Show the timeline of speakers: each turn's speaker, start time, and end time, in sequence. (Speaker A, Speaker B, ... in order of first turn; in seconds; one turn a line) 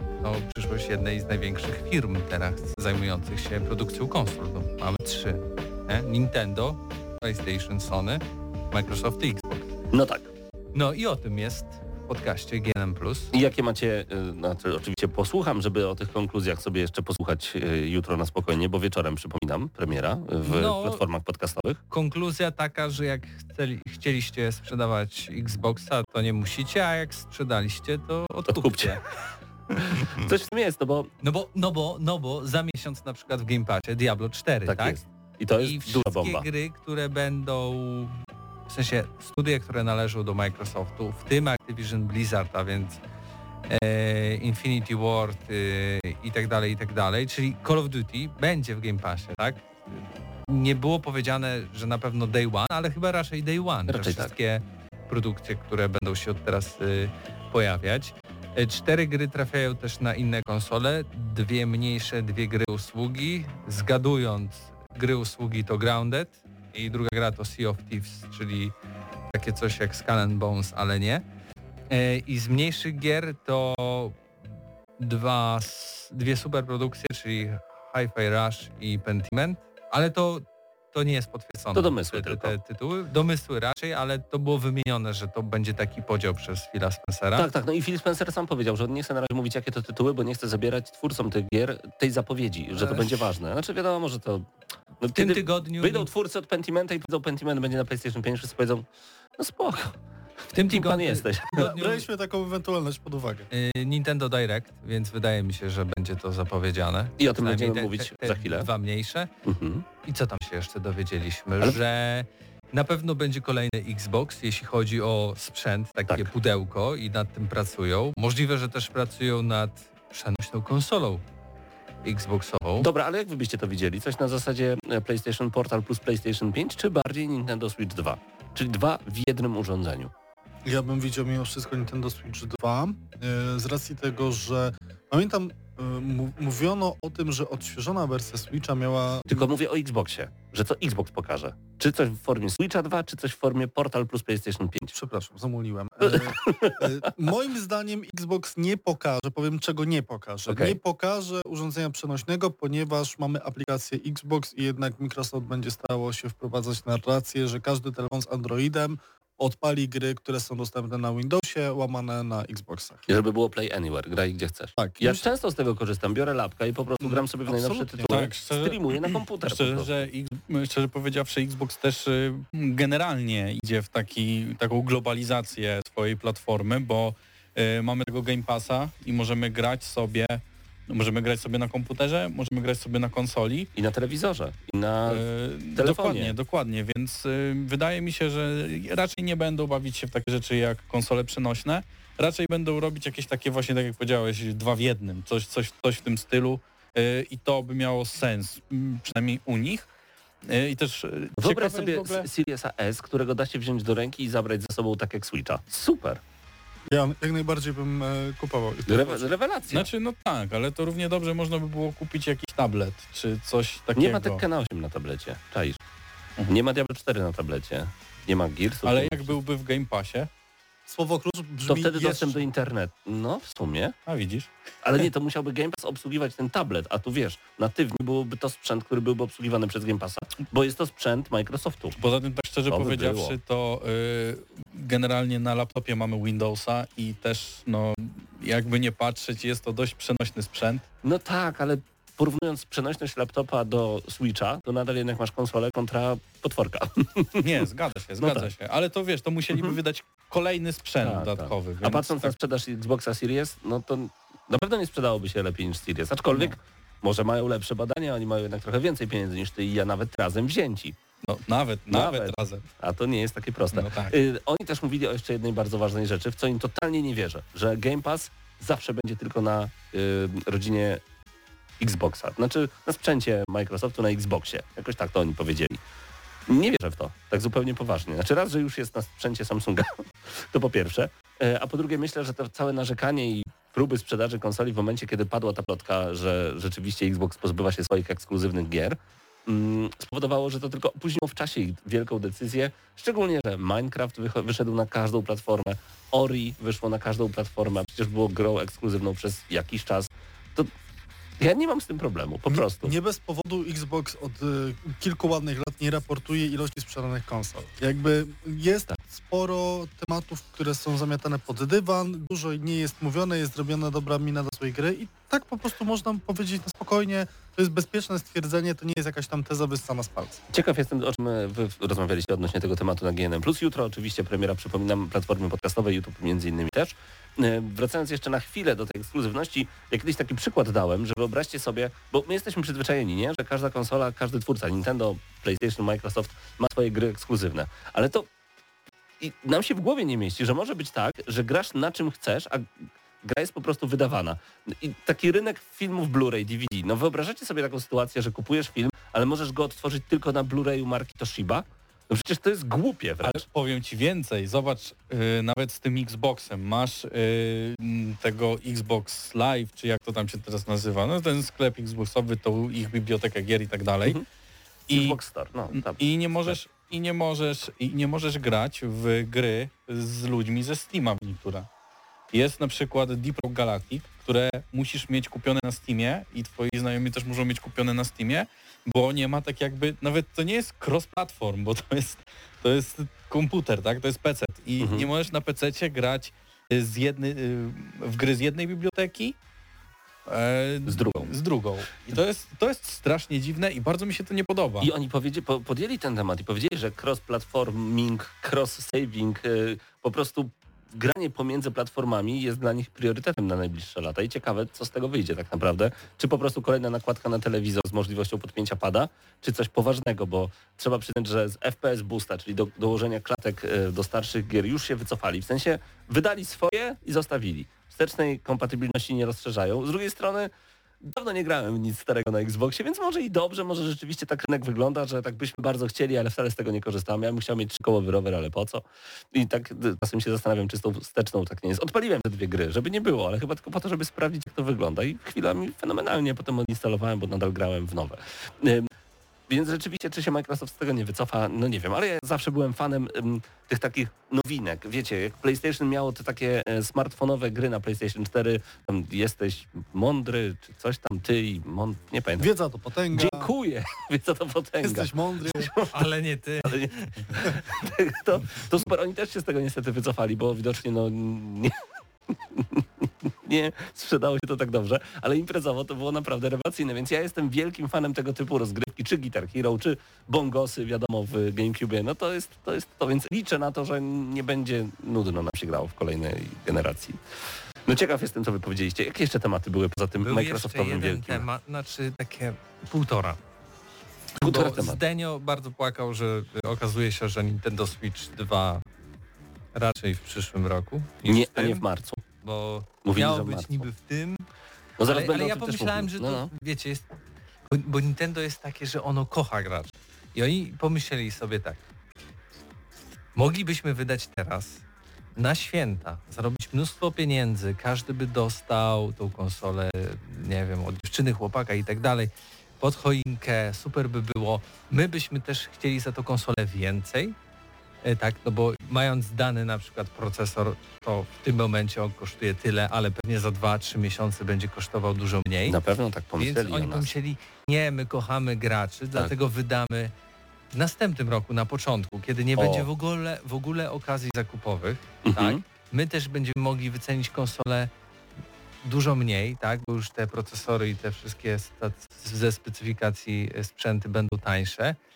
Speaker A: 0.2-9.7
Speaker B: 9.9-10.3
Speaker A: 10.7-13.3
Speaker B: 13.3-21.8
Speaker A: 20.4-21.0
Speaker A: 21.9-29.0
Speaker B: 28.5-29.0
Speaker B: 29.9-31.1
Speaker A: 31.2-35.0
Speaker B: 34.6-36.4
Speaker A: 35.6-38.2
Speaker A: 38.7-43.0
Speaker A: 43.7-49.7
Speaker A: 50.5-68.7
Speaker B: 53.9-54.3
Speaker A: 69.3-71.2
Speaker A: 71.9-74.2
Speaker A: 75.0-87.5
Speaker B: 81.7-82.5
Speaker B: 87.3-94.5
Speaker A: 92.8-93.1
Speaker B: 95.0-98.8
Speaker A: 95.1-96.1
Speaker B: 99.4-100.0
Speaker A: 100.5-102.0
Speaker B: 100.5-101.7
Speaker C: 101.6-103.5
Speaker A: 103.5-109.3
Speaker B: 107.2-108.7
Speaker B: 109.4-109.8
Speaker A: 110.0-121.2
Speaker A: 122.0-122.9
Speaker B: 122.8-130.1
Speaker C: 130.7-139.5
Speaker B: 139.3-144.9
Speaker C: 144.9-163.1
Speaker B: 146.0-146.9
Speaker B: 150.5-150.8
Speaker B: 163.1-170.1
Speaker C: 164.8-165.3
Speaker D: 167.0-183.7
Speaker B: 183.7-186.3
Speaker D: 185.1-199.9
Speaker D: 200.4-202.3
Speaker B: 201.4-206.2
Speaker C: 206.9-209.3
Speaker B: 208.9-209.9
Speaker D: 209.7-214.4
Speaker B: 213.9-215.8
Speaker B: 216.5-219.3
Speaker D: 218.8-220.3
Speaker C: 220.9-222.4
Speaker B: 221.6-223.9
Speaker D: 224.1-224.5
Speaker B: 224.8-231.9
Speaker D: 232.0-240.8
Speaker B: 232.7-233.4
Speaker B: 241.0-247.4
Speaker D: 247.4-252.3
Speaker B: 248.2-248.5
Speaker B: 249.5-249.8
Speaker B: 251.0-260.9
Speaker D: 261.2-262.6
Speaker B: 261.9-271.0
Speaker D: 263.7-264.1
Speaker B: 271.8-275.8
Speaker B: 276.5-300.7
Speaker B: 301.4-302.9
Speaker C: 302.6-320.4
Speaker B: 320.5-338.3
Speaker B: 339.2-342.6
Speaker B: 343.2-353.4
Speaker D: 353.2-364.2
Speaker D: 364.9-365.2
Speaker B: 364.9-366.6
Speaker D: 365.7-371.7
Speaker D: 372.3-389.3
Speaker B: 384.8-385.1
Speaker D: 390.2-394.9
Speaker B: 390.9-391.3
Speaker B: 394.8-420.5
Speaker B: 421.0-438.9
Speaker B: 439.5-452.5
Speaker C: 452.4-453.5
Speaker B: 453.1-456.1
Speaker C: 454.8-455.7
Speaker A: 455.9-457.6
Speaker B: 456.6-461.8
Speaker B: 462.3-477.2
Speaker B: 477.9-481.4
Speaker A: 480.2-483.4
Speaker A: 484.4-488.8
Speaker B: 484.4-485.0
Speaker A: 489.7-491.8
Speaker B: 491.2-492.2
Speaker A: 492.4-494.4
Speaker B: 493.0-493.9
Speaker B: 495.0-496.5
Speaker A: 495.1-497.1
Speaker A: 497.7-501.8
Speaker A: 503.4-504.8
Speaker A: 505.4-517.3
Speaker A: 518.0-525.8
Speaker B: 525.7-527.1
Speaker A: 526.4-530.1
Speaker A: 530.7-537.9
Speaker B: 532.6-532.9
Speaker B: 535.2-535.6
Speaker A: 538.8-545.0